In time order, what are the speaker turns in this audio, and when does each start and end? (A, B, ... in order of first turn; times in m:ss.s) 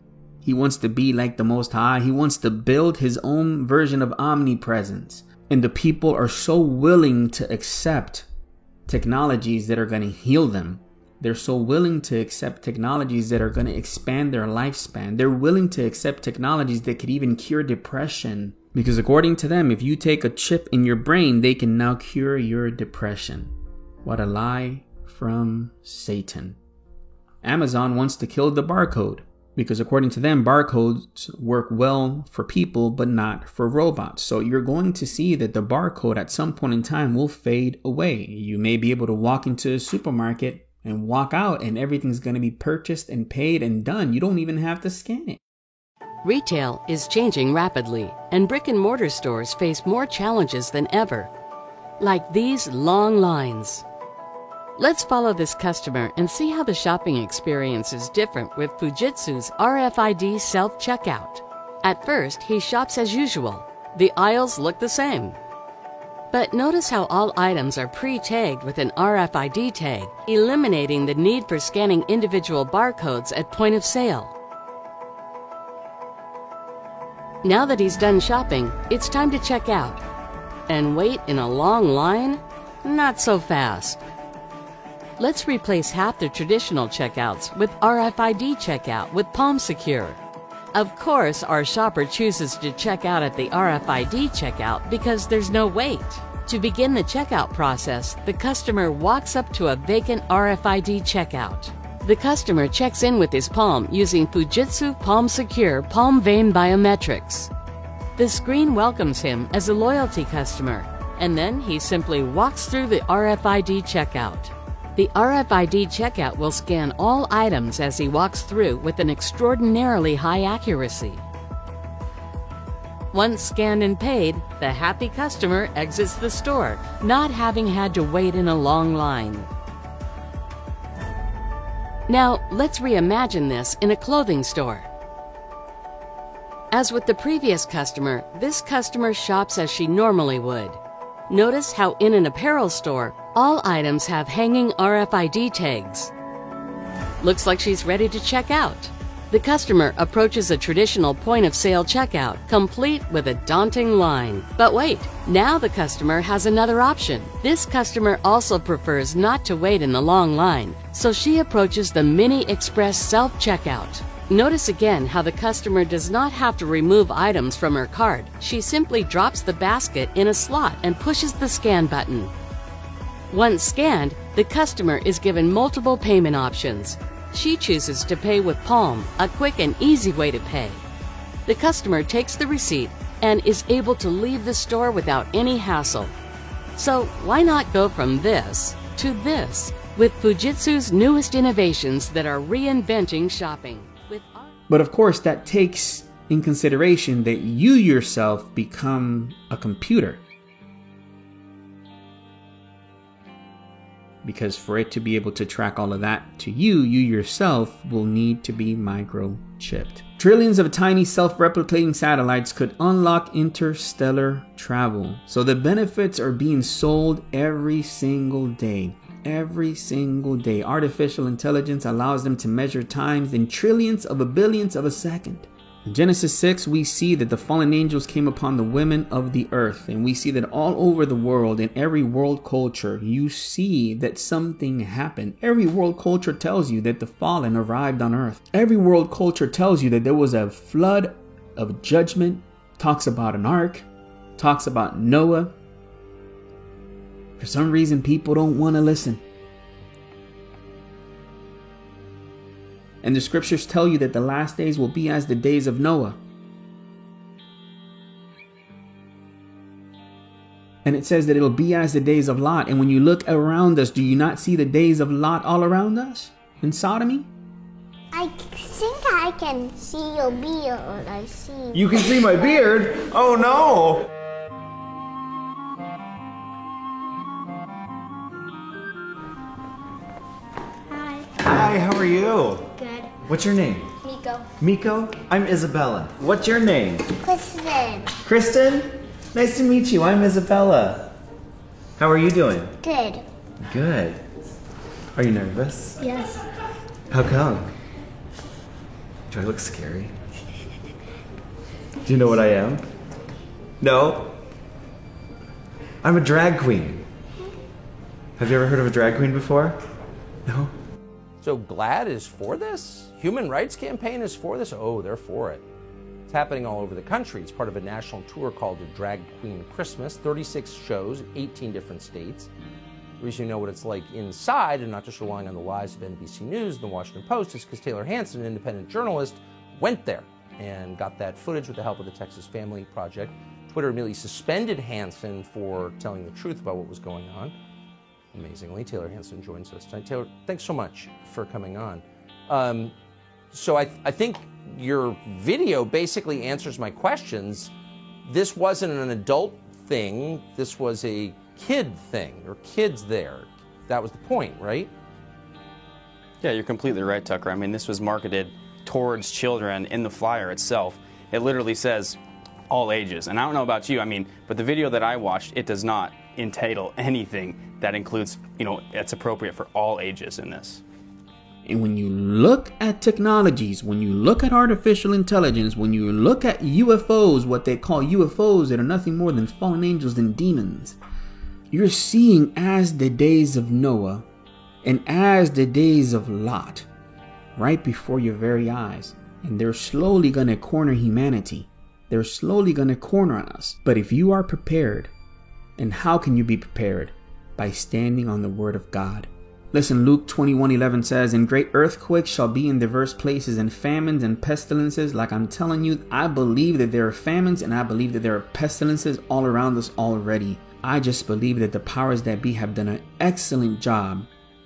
0:00.4-0:08.3 A
0:08.8-0:23.5 A
0:24.0-0:26.6 A
0:27.4-0:45.4 A
0:46.2-0:51.3 B
0:52.0-0:53.8 B
0:54.8-1:05.4 B
1:06.3-1:14.3 B
1:17.4-1:20.0 B
1:20.7-1:24.0 B
1:25.2-1:30.2 B
1:30.7-1:47.5 B
1:48.2-2:01.2 B
2:03.1-2:09.5 B
2:12.1-2:14.9 B
2:16.7-2:26.1 B
2:27.2-2:52.3 B
2:53.3-3:00.8 B
3:01.4-3:06.1 B
3:06.8-3:14.5 B
3:14.7-3:20.2 A
3:24.2-4:05.6 A
4:07.4-4:09.2 A
4:13.0-4:16.2 A
4:20.8-4:27.3 A
4:28.1-4:31.8 C
4:31.7-4:34.0 D
4:40.9-4:41.3 C
4:41.4-4:43.9 D
4:42.8-4:43.1 C
4:44.0-4:44.5 C
4:44.6-4:47.1 D
4:47.2-4:48.1 C
4:48.2-4:51.1 D
4:52.0-4:52.7 D
4:52.8-4:53.2 C
4:53.6-4:54.2 D
4:55.1-4:56.2 D
4:56.0-4:56.3 C
4:57.1-4:57.7 D
4:59.3-5:00.1 D
5:02.0-5:02.8 D
5:03.8-5:04.3 D
5:06.0-5:07.0 D
5:08.4-5:09.8 D
5:10.4-5:10.7 D
5:11.4-5:15.6 E
5:16.3-5:22.5 E
5:23.2-5:37.5 E
5:38.3-5:42.9 E
5:43.5-5:47.7 E
5:48.2-5:54.9 E
5:56.4-6:10.8 F
6:11.6-6:21.0 A
6:21.7-6:24.3 A
6:24.8-6:26.9 A
6:27.6-6:35.1 A
6:35.8-6:54.3 A